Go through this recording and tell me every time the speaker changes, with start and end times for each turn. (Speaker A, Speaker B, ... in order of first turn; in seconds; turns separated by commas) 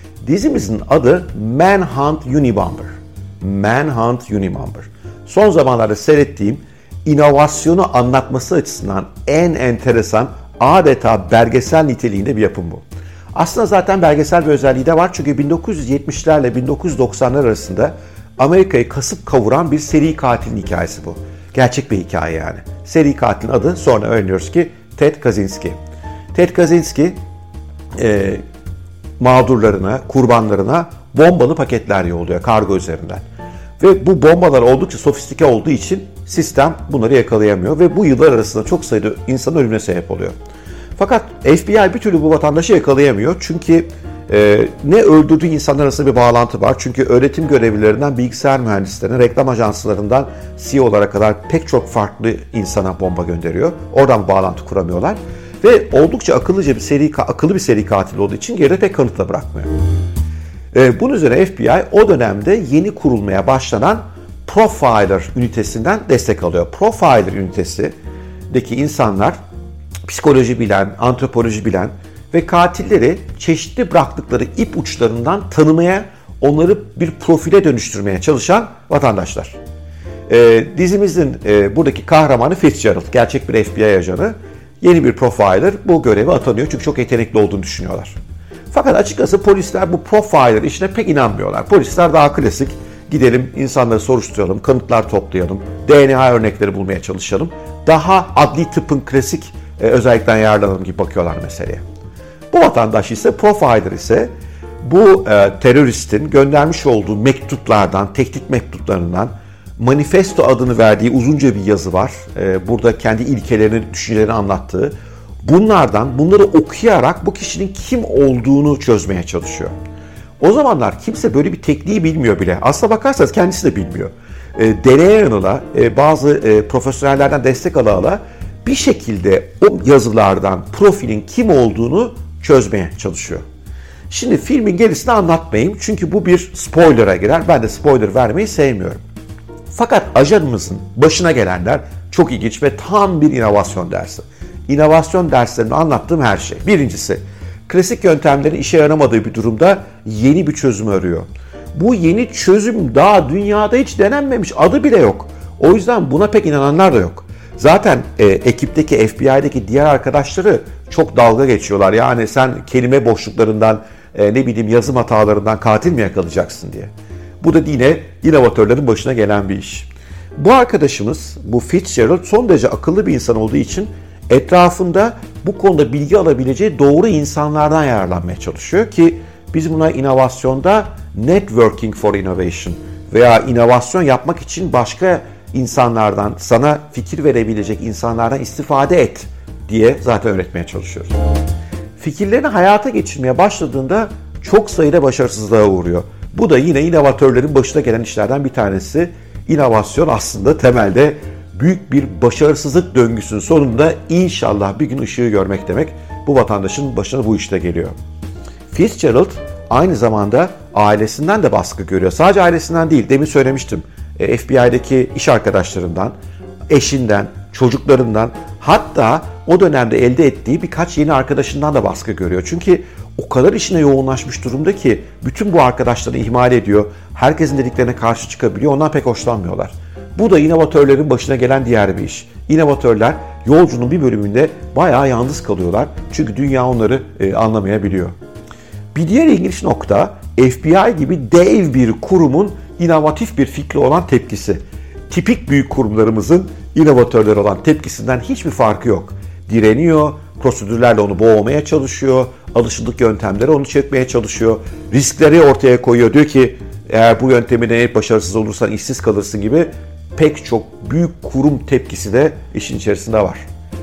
Speaker A: 0.2-25.8, Speaker A: 26.3-27.2, Speaker A: 28.0-28.4, Speaker A: 29.2-33.2, Speaker A: 33.8-40.4, Speaker A: 41.0-59.7, Speaker A: 60.7-67.9, Speaker A: 68.5-69.4, Speaker A: 70.0-79.6, Speaker A: 80.3-88.2, Speaker A: 88.7-101.8, Speaker A: 102.5-104.3, Speaker A: 104.8-119.7, Speaker A: 120.4-133.4, Speaker A: 134.1-139.0, Speaker A: 139.7-191.1, Speaker A: 192.0-207.9, Speaker A: 208.7-216.2, Speaker A: 216.7-238.1, Speaker A: 238.9-263.4